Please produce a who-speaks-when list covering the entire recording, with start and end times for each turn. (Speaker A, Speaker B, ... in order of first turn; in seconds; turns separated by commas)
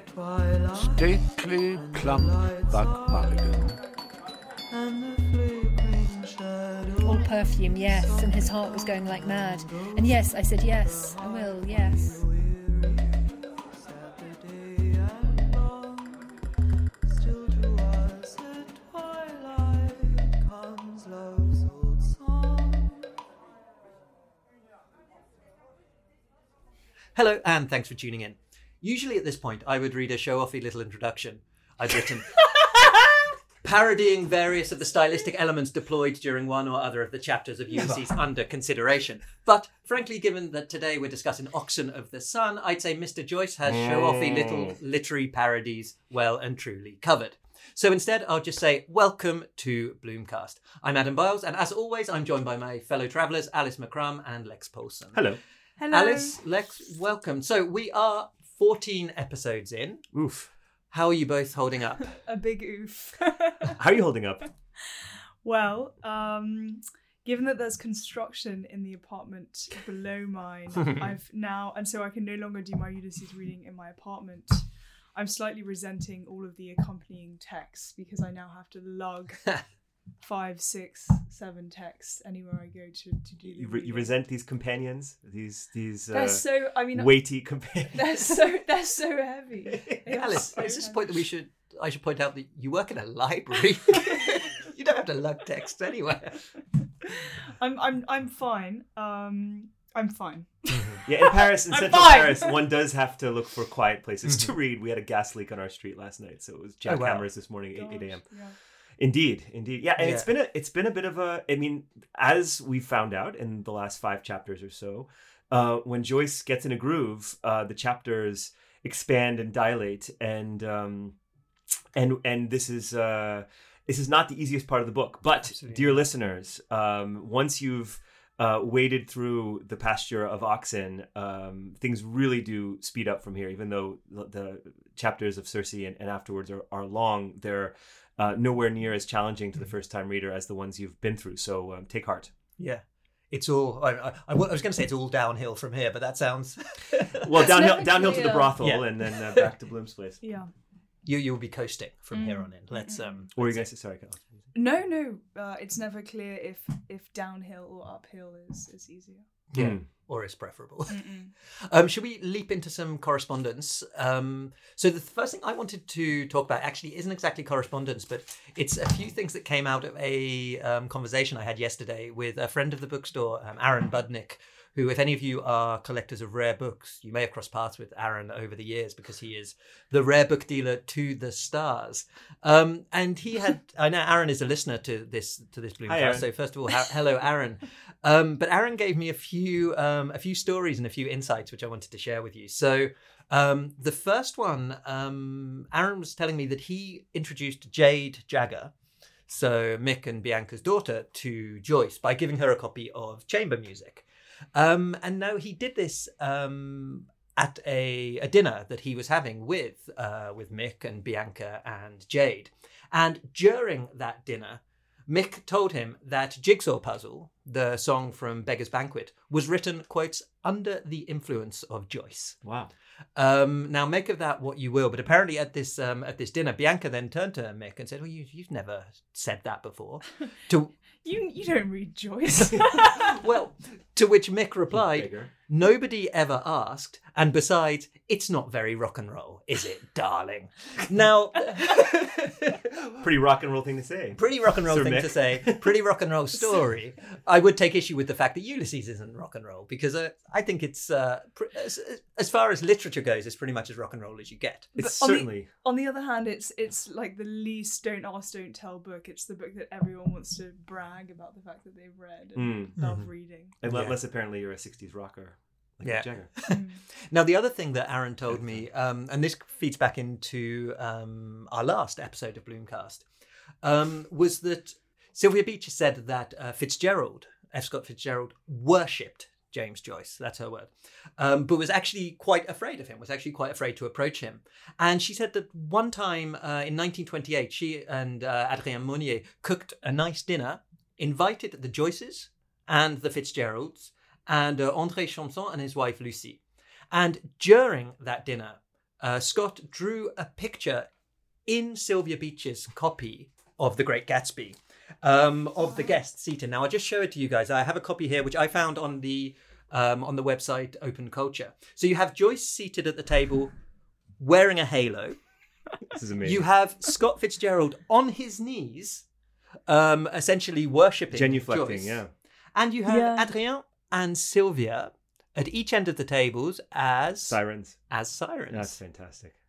Speaker A: 0.8-3.7, Speaker B: 7.0-12.3, Speaker C: 27.1-33.0, Speaker C: 33.6-55.2, Speaker D: 43.7-44.7, Speaker D: 55.1-55.4, Speaker E: 55.8-56.4, Speaker C: 55.9-60.0, Speaker D: 60.1-60.5, Speaker C: 60.9-62.1, Speaker E: 62.2-63.8, Speaker D: 63.8-64.5, Speaker E: 64.9-79.6, Speaker E: 80.2-84.1, Speaker D: 83.5-88.2, Speaker E: 86.1-91.1, Speaker C: 89.9-96.5, Speaker E: 97.2-102.5, Speaker C: 100.7-101.0, Speaker D: 101.0-108.3, Speaker C: 104.2-104.5, Speaker C: 106.8-107.2, Speaker E: 107.7-108.6, Speaker D: 109.0-121.2, Speaker C: 110.0-110.3, Speaker D: 121.9-142.3, Speaker C: 125.4-126.0, Speaker C: 142.6-147.2, Speaker D: 147.2-150.2, Speaker E: 147.4-148.5, Speaker C: 148.6-149.4, Speaker E: 150.2-150.5, Speaker C: 151.0-153.3, Speaker E: 152.1-153.6, Speaker D: 153.3-154.2, Speaker E: 154.5-159.3, Speaker C: 159.5-198.7, Speaker D: 159.6-159.8, Speaker E: 160.9-161.3, Speaker D: 185.9-186.3, Speaker C: 199.3-222.4, Speaker D: 222.4-222.7, Speaker C: 223.2-230.7, Speaker E: 231.0-233.1, Speaker C: 232.6-242.6, Speaker D: 234.7-235.3, Speaker D: 243.0-245.7, Speaker C: 244.2-254.7, Speaker D: 254.8-255.5, Speaker E: 254.8-263.5, Speaker D: 262.4-262.8, Speaker C: 262.8-263.1, Speaker D: 263.6-266.3, Speaker C: 263.6-264.0, Speaker C: 265.8-273.1, Speaker E: 266.5-266.8, Speaker D: 268.3-268.6, Speaker C: 273.6-300.9, Speaker C: 301.4-313.5, Speaker C: 314.2-315.2, Speaker D: 315.9-316.4, Speaker C: 316.2-319.1, Speaker C: 319.7-322.0, Speaker D: 321.1-322.1, Speaker C: 322.5-328.7, Speaker E: 322.9-323.3, Speaker D: 327.2-327.9, Speaker D: 328.5-329.3